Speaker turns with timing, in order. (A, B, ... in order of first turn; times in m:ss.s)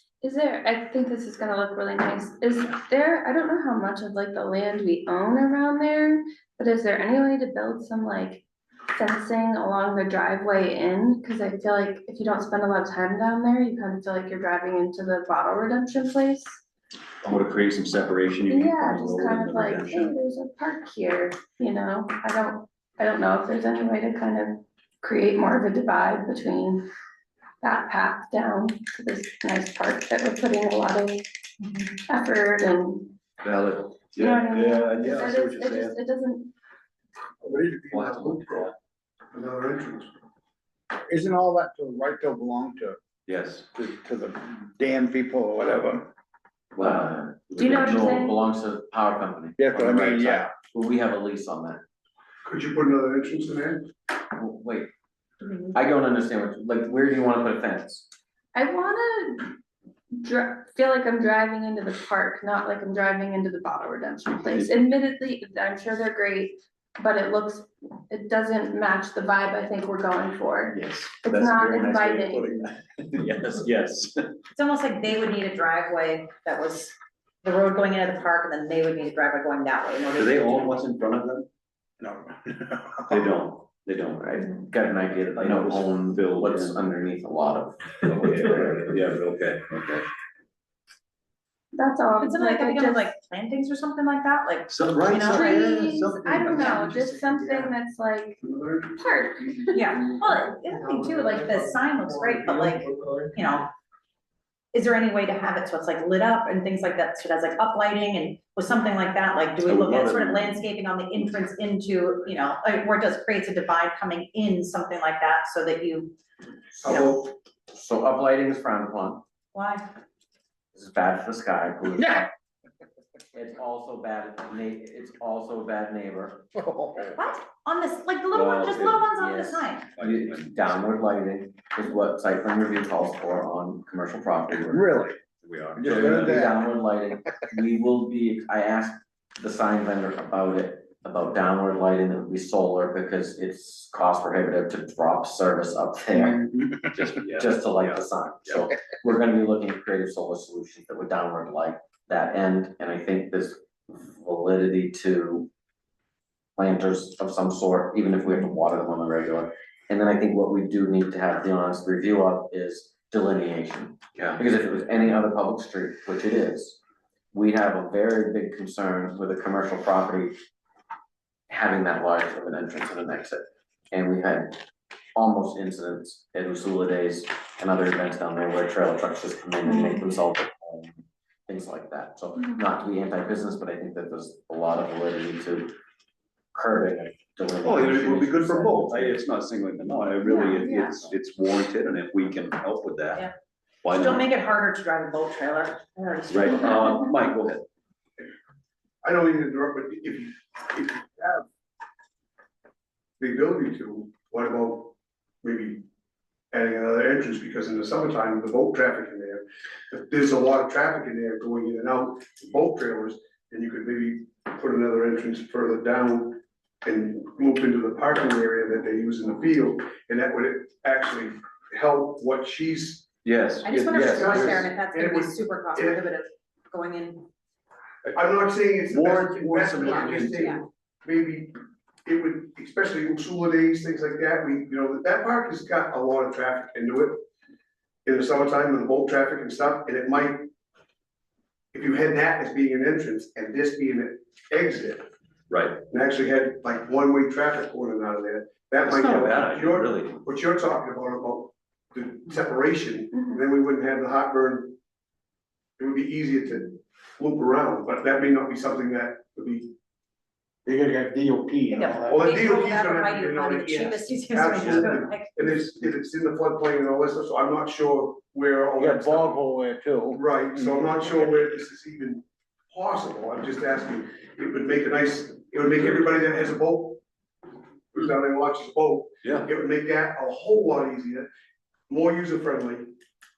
0:00.2-0:08.4 A
0:09.0-0:16.6 A
0:17.2-0:20.2 B
0:18.5-0:26.9 A
0:27.6-0:31.2 A
0:31.6-0:31.9 C
0:32.1-0:33.1 A
0:33.4-0:36.0 B
0:34.2-0:36.5 A
0:37.4-0:38.7 D
0:37.9-0:38.7 B
0:39.3-0:40.1 D
0:41.1-0:43.0 E
0:43.3-0:43.7 B
0:43.7-0:46.1 E
0:46.8-0:48.1 B
0:46.8-0:51.8 F
0:47.6-0:48.4 A
0:49.6-0:50.5 E
0:52.4-0:53.9 D
0:54.4-0:54.9 F
0:55.4-0:55.8 C
0:55.7-0:58.1 F
0:58.6-0:59.5 A
1:00.2-1:12.7 A
1:04.5-1:04.8 B
1:10.7-1:14.4 B
1:14.5-1:20.8 C
1:20.2-1:21.5 B
1:22.0-1:23.2 E
1:23.1-1:24.4 B
1:24.2-1:28.9 F
1:25.4-1:26.8 B
1:28.1-1:30.1 B
1:31.7-1:33.1 A
1:32.2-1:35.6 C
1:34.7-1:36.7 B
1:35.4-1:38.4 A
1:36.6-1:37.7 D
1:38.4-1:39.0 D
1:39.0-1:40.0 A
1:39.7-1:43.7 C
1:39.9-1:43.4 D
1:44.7-1:56.2 C
1:49.6-1:50.6 B
1:56.8-1:57.3 D
1:56.8-1:57.2 C
1:57.7-1:59.2 F
1:59.5-1:59.9 C
2:00.7-2:02.3 F
2:03.3-2:06.4 F
2:06.6-2:07.3 E
2:07.2-2:09.9 C
2:08.3-2:09.1 B
2:09.2-2:15.0 F
2:09.9-2:10.8 B
2:14.7-2:15.2 E
2:15.4-2:16.4 B
2:15.8-2:16.7 E
2:15.9-2:26.5 F
2:26.1-2:26.9 E
2:27.0-2:28.6 B
2:27.4-2:35.5 F
2:36.6-2:46.8 F
2:44.2-2:44.4 B
2:47.3-2:50.4 F
2:51.5-2:54.6 F
2:55.2-3:05.7 F
2:59.6-3:00.1 A
3:02.4-3:02.6 A
3:06.5-3:09.2 F
3:07.6-3:13.3 B
3:10.2-3:11.0 A
3:13.8-3:14.3 B
3:13.9-3:17.0 C
3:16.3-3:17.7 B
3:19.0-3:21.4 D
3:23.2-3:25.8 D
3:26.5-3:43.1 D
3:43.2-3:44.6 B
3:43.6-3:47.3 C
3:43.9-3:46.0 D
3:48.1-3:57.2 D
3:48.9-3:50.4 B
3:49.8-3:50.6 C
3:58.0-4:00.5 D
4:01.7-4:05.1 D
4:05.5-4:05.8 B
4:05.9-4:14.8 D
4:08.8-4:10.2 B
4:15.8-4:19.7 D
4:20.7-4:22.4 E
4:21.7-4:25.4 C
4:22.1-4:29.4 D
4:28.8-4:30.8 E
4:30.1-4:37.0 D
4:37.9-4:41.3 D
4:39.2-4:39.5 B
4:41.9-4:42.9 D